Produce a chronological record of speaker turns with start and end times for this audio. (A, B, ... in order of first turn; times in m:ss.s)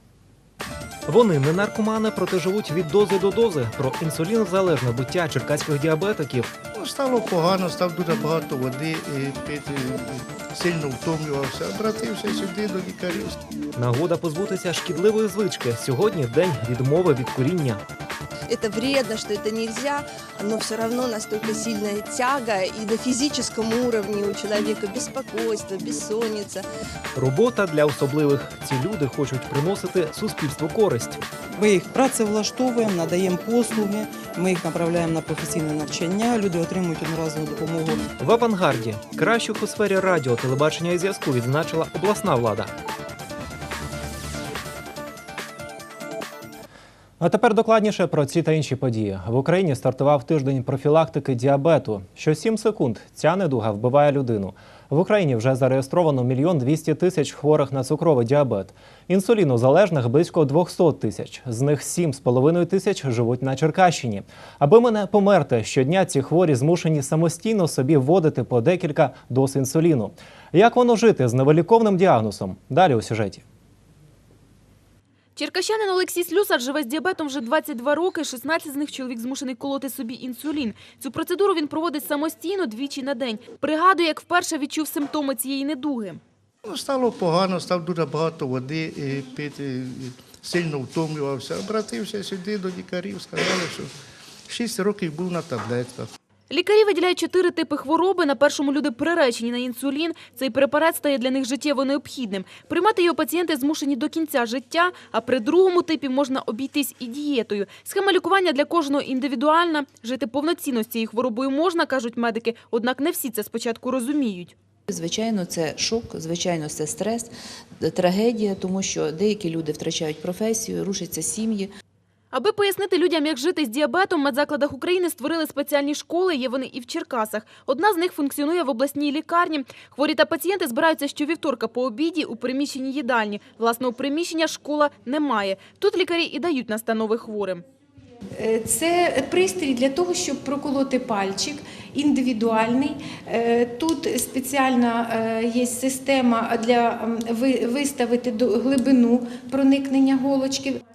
0:01.1-0:06.5 A
0:06.7-0:13.4 B
0:13.8-0:17.8 A
0:18.5-0:26.6 C
0:27.1-0:31.2 A
0:31.6-0:38.0 D
0:38.2-0:42.7 A
0:47.2-1:13.4 A
1:15.4-1:26.2 E
1:26.6-1:33.9 B
1:34.5-1:36.1 B
1:36.5-1:54.6 E
1:54.9-1:57.2 F
1:57.8-2:01.6 F
2:02.3-2:17.6 E
2:18.3-2:30.8 G